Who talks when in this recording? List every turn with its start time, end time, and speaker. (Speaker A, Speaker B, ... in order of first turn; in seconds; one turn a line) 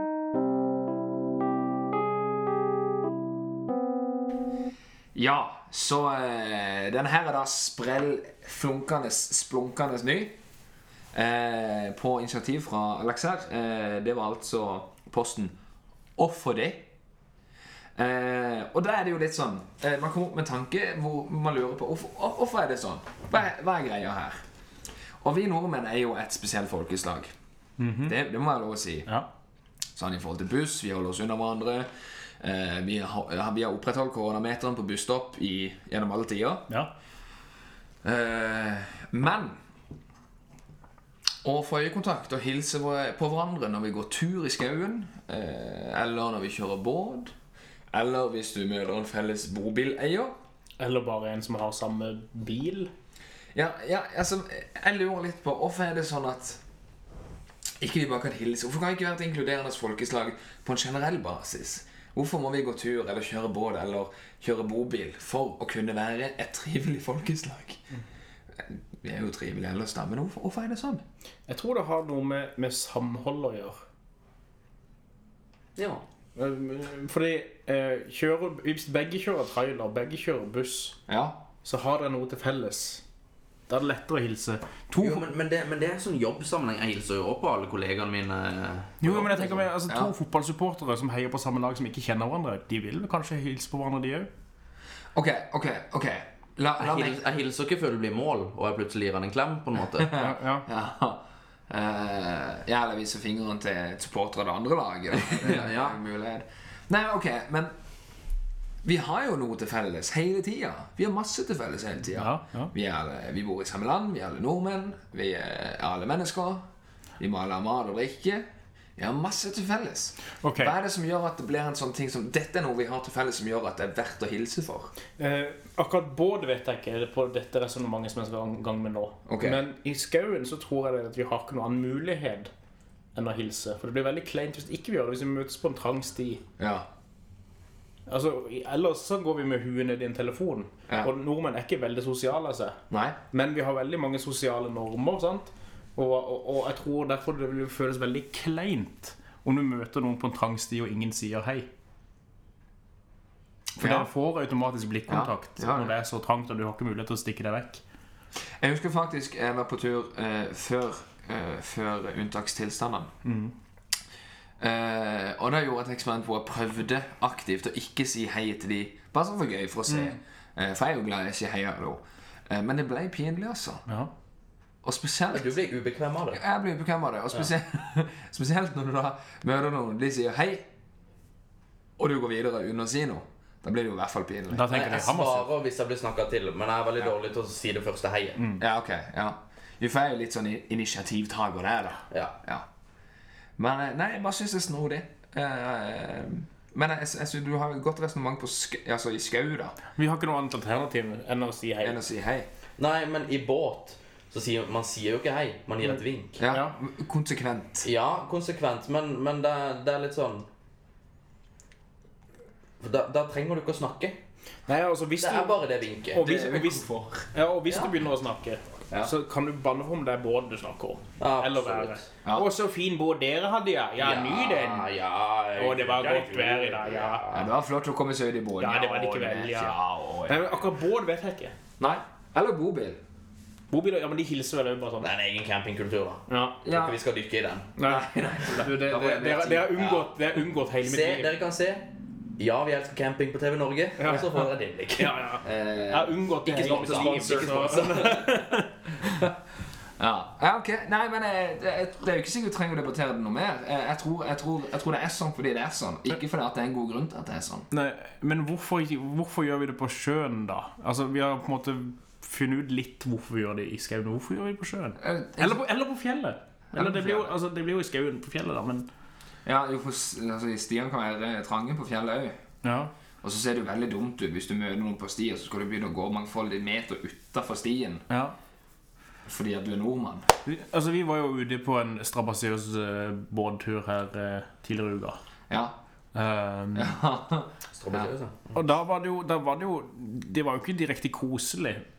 Speaker A: 5.1-10.4
Speaker A: 11.1-15.6
Speaker A: 16.2-16.9
Speaker A: 17.9-24.4
Speaker A: 25.2-27.3
Speaker B: 27.8-28.2
Speaker A: 28.1-29.1
Speaker A: 29.9-31.9
Speaker A: 32.4-36.7
Speaker A: 38.0-39.5
Speaker A: 41.4-47.3
Speaker A: 47.9-50.4
Speaker B: 50.8-52.9
Speaker A: 53.5-56.6
Speaker A: 57.8-67.8
Speaker A: 68.5-71.0
Speaker B: 71.5-73.8
Speaker C: 75.8-76.0
Speaker B: 76.3-81.0
Speaker A: 81.1-81.4
Speaker B: 81.6-83.0
Speaker B: 83.7-85.2
Speaker C: 85.0-89.6
Speaker B: 89.0-94.3
Speaker A: 95.1-97.2
Speaker C: 96.8-100.2
Speaker A: 100.0-107.7
Speaker B: 100.1-100.7
Speaker C: 105.2-106.0
Speaker A: 108.8-116.6
Speaker B: 112.1-112.7
Speaker A: 117.2-118.5
Speaker A: 119.0-124.9
Speaker B: 120.4-120.7
Speaker B: 125.2-132.5
Speaker A: 129.2-129.6
Speaker B: 133.1-136.4
Speaker A: 136.6-136.9
Speaker B: 138.1-142.8
Speaker A: 142.9-143.2
Speaker B: 143.3-151.7
Speaker B: 153.8-157.8
Speaker A: 153.8-154.1
Speaker A: 155.1-155.9
Speaker A: 158.6-163.1
Speaker B: 163.2-163.5
Speaker A: 164.6-173.8
Speaker B: 169.9-170.2
Speaker A: 174.8-175.6
Speaker C: 175.3-176.4
Speaker A: 176.3-180.7
Speaker A: 182.0-184.7
Speaker B: 184.5-185.5
Speaker C: 184.7-188.4
Speaker A: 188.6-192.7
Speaker C: 192.1-192.3
Speaker A: 193.6-199.8
Speaker B: 199.9-202.0
Speaker A: 201.8-202.5
Speaker C: 202.8-206.4
Speaker A: 206.4-207.9
Speaker B: 206.5-206.7
Speaker C: 207.8-210.5
Speaker C: 212.8-214.2
Speaker B: 214.7-215.6
Speaker C: 215.2-216.2
Speaker B: 216.1-224.9
Speaker A: 216.2-217.2
Speaker C: 221.2-222.1
Speaker C: 224.0-227.5
Speaker B: 225.6-227.2
Speaker A: 227.3-230.6
Speaker B: 228.6-231.5
Speaker A: 231.8-233.0
Speaker B: 233.7-235.1
Speaker C: 235.0-237.7
Speaker B: 236.3-236.6
Speaker A: 236.6-237.0
Speaker B: 237.8-241.3
Speaker A: 237.8-240.0
Speaker C: 240.8-241.9
Speaker C: 242.4-245.2
Speaker B: 244.0-249.2
Speaker A: 245.4-247.9
Speaker C: 246.4-248.6
Speaker A: 250.0-257.7
Speaker B: 257.7-268.9
Speaker A: 265.0-265.6
Speaker A: 266.7-267.3
Speaker A: 269.4-272.4
Speaker B: 272.6-272.9
Speaker A: 273.2-278.1
Speaker B: 278.1-278.4
Speaker A: 279.2-280.3
Speaker B: 280.4-285.2
Speaker A: 285.5-285.8
Speaker B: 286.1-287.0
Speaker A: 286.7-288.1
Speaker C: 287.8-288.5
Speaker B: 288.5-291.8